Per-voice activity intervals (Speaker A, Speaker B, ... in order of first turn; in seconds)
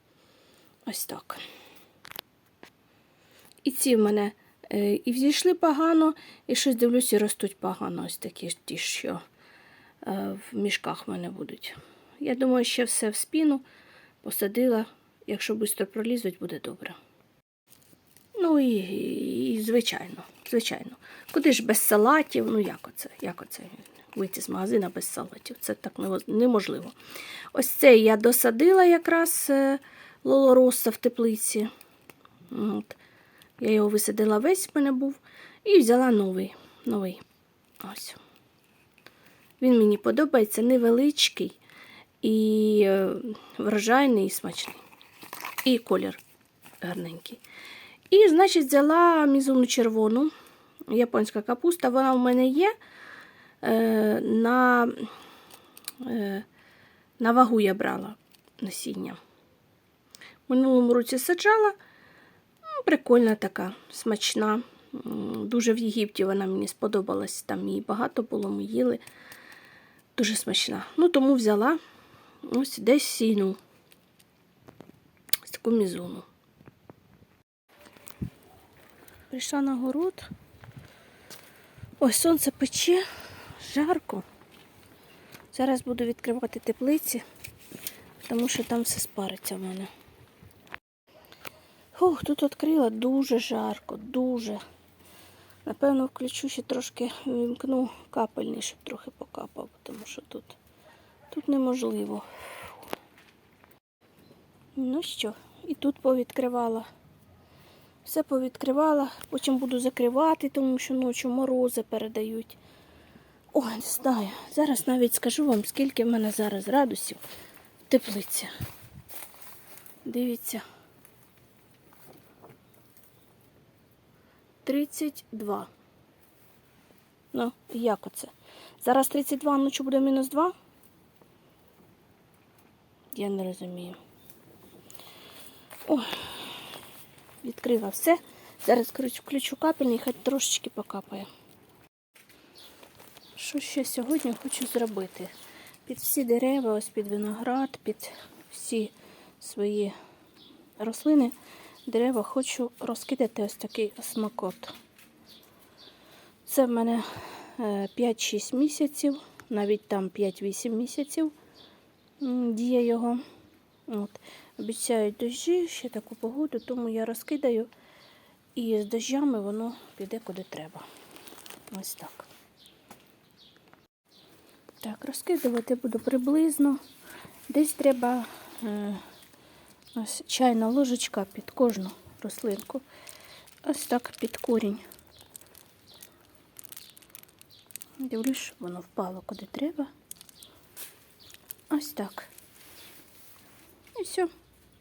Speaker A: 0.8-1.4, 3.6-9.2, 10.0-13.6, 14.2-17.0, 18.3-26.9, 27.5-31.7, 32.5-33.0, 33.6-37.2, 37.8-38.2, 39.6-41.6, 42.2-44.8, 45.6-46.2, 46.8-47.4, 48.1-50.3, 50.9-52.7, 53.6-55.1, 56.0-56.5, 57.2-59.2, 60.5-61.8, 62.8-69.0, 70.1-71.8, 72.4-73.6, 75.4-76.3, 79.3-80.3, 82.0-84.2, 85.5-87.2, 88.2-89.9, 91.9-94.6, 95.6-100.6, 101.3-102.8, 104.7-106.9, 108.0-112.6, 113.5-117.2, 117.9-118.5, 120.0-120.6, 124.6-125.7, 127.3-130.5, 133.1-134.0, 135.8-136.6, 137.4-141.3, 143.3-145.3, 145.8-149.9, 150.8-151.3, 151.8-154.7, 156.4-161.3, 162.2-163.2, 163.9-167.7, 168.5-170.8, 171.7-172.3, 174.8-176.8, 177.5-179.0, 179.9-182.8, 183.6-184.8, 188.0-189.9, 191.7-192.3, 193.9-194.3